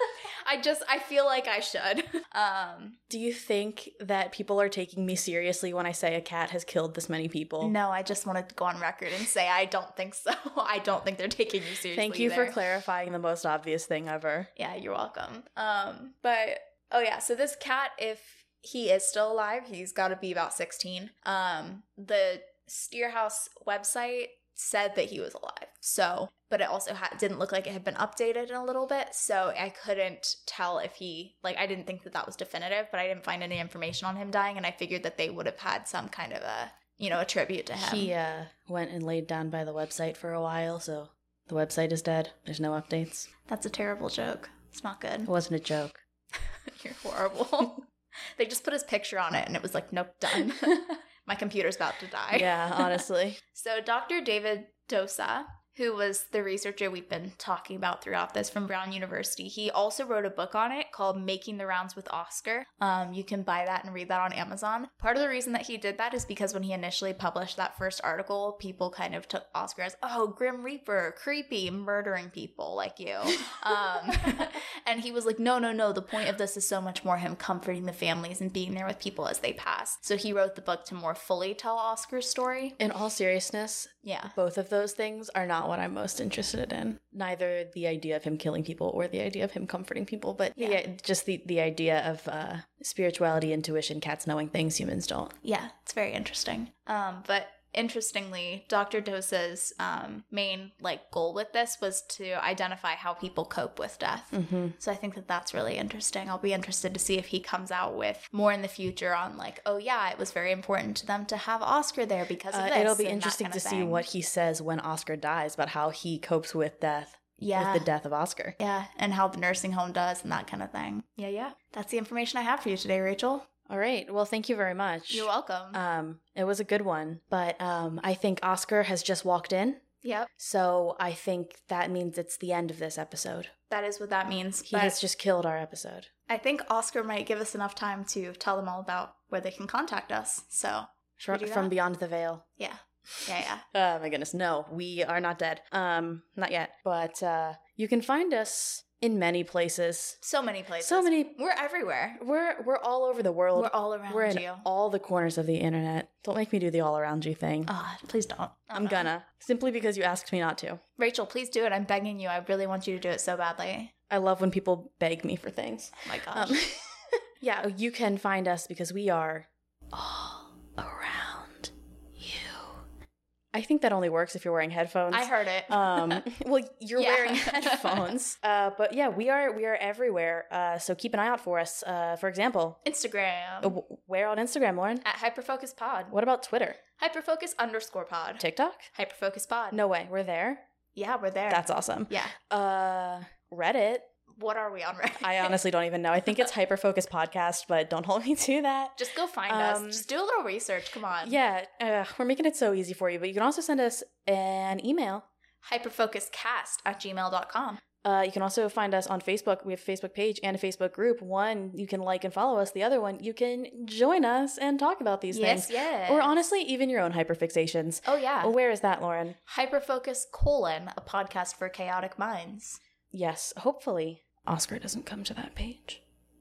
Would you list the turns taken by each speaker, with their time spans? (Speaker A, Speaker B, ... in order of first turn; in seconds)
Speaker A: 0.4-3.0, 7.6-12.6, 14.6-38.1, 43.5-45.3, 46.7-47.8, 48.4-82.8, 84.0-84.3, 90.5-90.8, 95.4-114.0, 117.4-117.9, 118.6-123.5, 125.1-125.8, 130.0-130.3, 133.7-135.0, 136.3-141.7, 142.6-143.6, 150.2-152.2, 153.5-154.7, 157.7-159.1, 161.0-163.9, 166.0-166.6, 175.1-176.3, 177.0-178.1, 182.8-183.8, 185.0-186.1, 187.0-189.8, 190.9-192.3, 194.3-195.6, 199.0-201.4, 205.6-207.8, 215.3-216.3, 218.0-218.5, 219.5-222.8
Speaker B: 3.1-7.7, 11.9-14.5, 37.8-43.3, 45.2-46.0, 52.3-53.4, 82.8-95.3, 104.3-104.8, 112.5-118.5, 123.7-129.8, 130.4-133.5, 134.7-136.1, 141.2-142.4, 143.7-150.2, 150.8-151.4, 152.2-157.7, 158.7-160.8, 164.1-172.8, 173.5-182.8, 183.6-185.0, 186.1-186.8, 188.4-188.9, 189.7-190.6, 191.5-194.1, 195.2-200.0, 201.2-205.2, 208.0-219.4, 223.1-226.0